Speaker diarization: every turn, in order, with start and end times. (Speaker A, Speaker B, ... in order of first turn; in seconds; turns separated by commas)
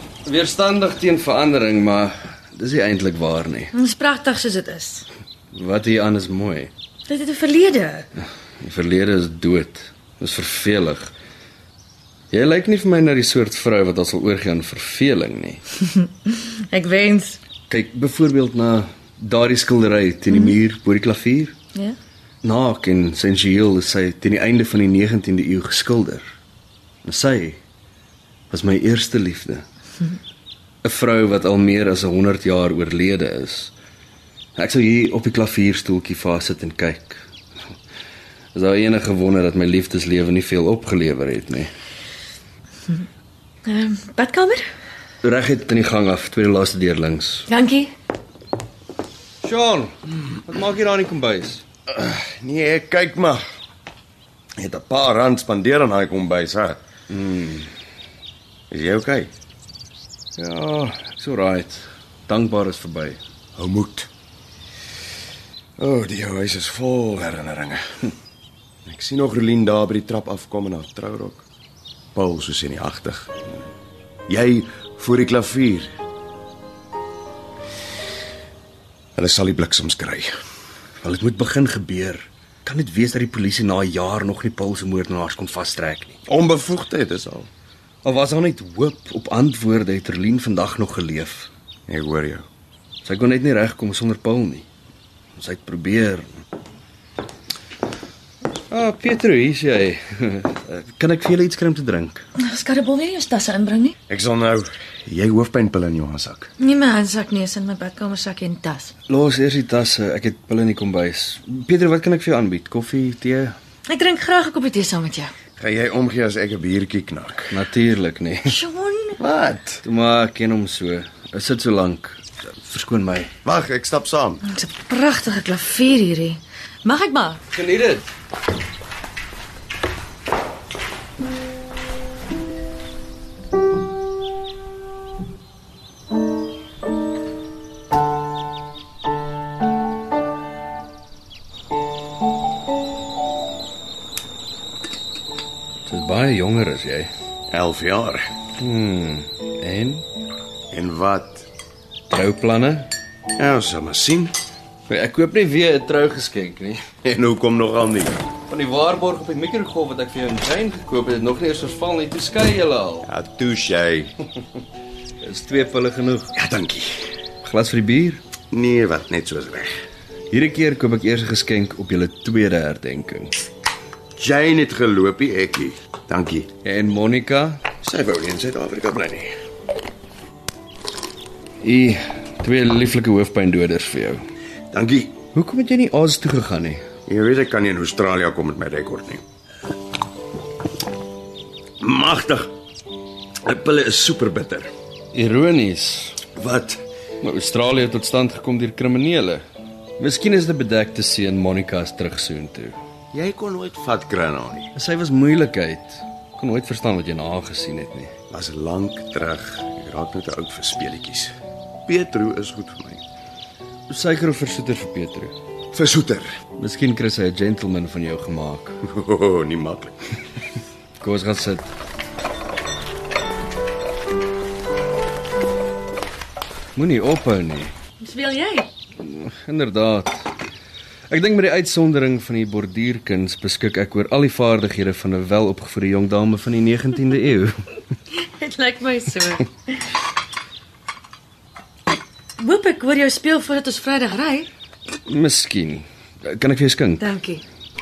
Speaker A: 0.2-3.7, Speaker B: 3.7-5.0, Speaker A: 5.5-6.7, Speaker B: 7.1-8.1, Speaker A: 8.6-11.1, Speaker A: 12.3-15.6, Speaker B: 16.2-17.4, Speaker A: 17.7-21.5, Speaker A: 22.4-26.2, Speaker A: 27.0-27.6, Speaker A: 28.5-29.6, Speaker A: 30.8-33.7, Speaker A: 34.6-37.2, Speaker A: 38.5-41.7, Speaker B: 43.6-44.6, Speaker A: 45.2-47.5, Speaker B: 47.5-47.9, Speaker A: 49.4-51.6, Speaker C: 51.9-53.4, Speaker C: 54.6-56.8, Speaker A: 57.1-57.7, Speaker C: 58.7-59.3, Speaker A: 60.4-63.2, Speaker C: 63.5-64.1, Speaker C: 65.8-68.0, Speaker C: 68.8-71.4, Speaker C: 72.1-73.3, Speaker C: 74.3-75.9, Speaker C: 79.2-80.3, Speaker A: 81.0-86.2, Speaker C: 86.3-87.5, Speaker A: 88.0-91.5, Speaker C: 91.9-92.5, Speaker A: 93.0-94.7, Speaker A: 95.3-96.4, Speaker A: 98.7-102.2, Speaker B: 102.4-103.9, Speaker C: 104.1-106.5, Speaker B: 106.6-108.9, Speaker A: 109.1-113.5, Speaker B: 113.9-115.3, Speaker C: 115.6-117.5, Speaker A: 117.5-118.5, Speaker B: 118.5-119.2, Speaker C: 119.2-119.8, Speaker A: 119.8-123.3, Speaker C: 123.4-124.4, Speaker B: 124.4-127.4, Speaker A: 127.5-128.1, Speaker A: 145.9-147.1, Speaker C: 147.5-148.3, Speaker A: 148.6-150.0, Speaker C: 150.7-151.5, Speaker A: 152.1-152.9, Speaker C: 153.4-154.3, Speaker A: 154.9-156.8, Speaker C: 157.0-158.2, Speaker A: 158.5-163.1, Speaker C: 163.0-164.1, Speaker A: 165.2-166.3, Speaker C: 166.3-167.1, Speaker A: 167.4-168.2, Speaker C: 168.5-169.7, Speaker A: 170.3-173.3, Speaker C: 174.2-176.5, Speaker A: 176.6-177.6, Speaker C: 177.8-179.3, Speaker A: 181.6-184.2, Speaker C: 184.7-185.2, Speaker A: 185.3-186.8, Speaker C: 187.1-189.2, Speaker C: 191.8-192.5, Speaker C: 193.4-194.7, Speaker A: 195.1-196.2, Speaker C: 196.3-196.8, Speaker A: 197.2-199.4, Speaker A: 200.0-202.8, Speaker C: 203.1-204.7, Speaker A: 204.7-208.1, Speaker C: 208.3-213.0, Speaker A: 213.9-215.3, Speaker C: 215.7-216.4, Speaker A: 216.6-218.8, Speaker C: 218.8-219.9, Speaker A: 221.0-221.7, Speaker A: 226.8-227.7, Speaker B: 228.0-228.7, Speaker A: 229.0-230.3, Speaker A: 231.1-237.6, Speaker B: 238.1-239.5, Speaker B: 242.4-244.5, Speaker A: 245.1-247.1, Speaker B: 247.0-247.4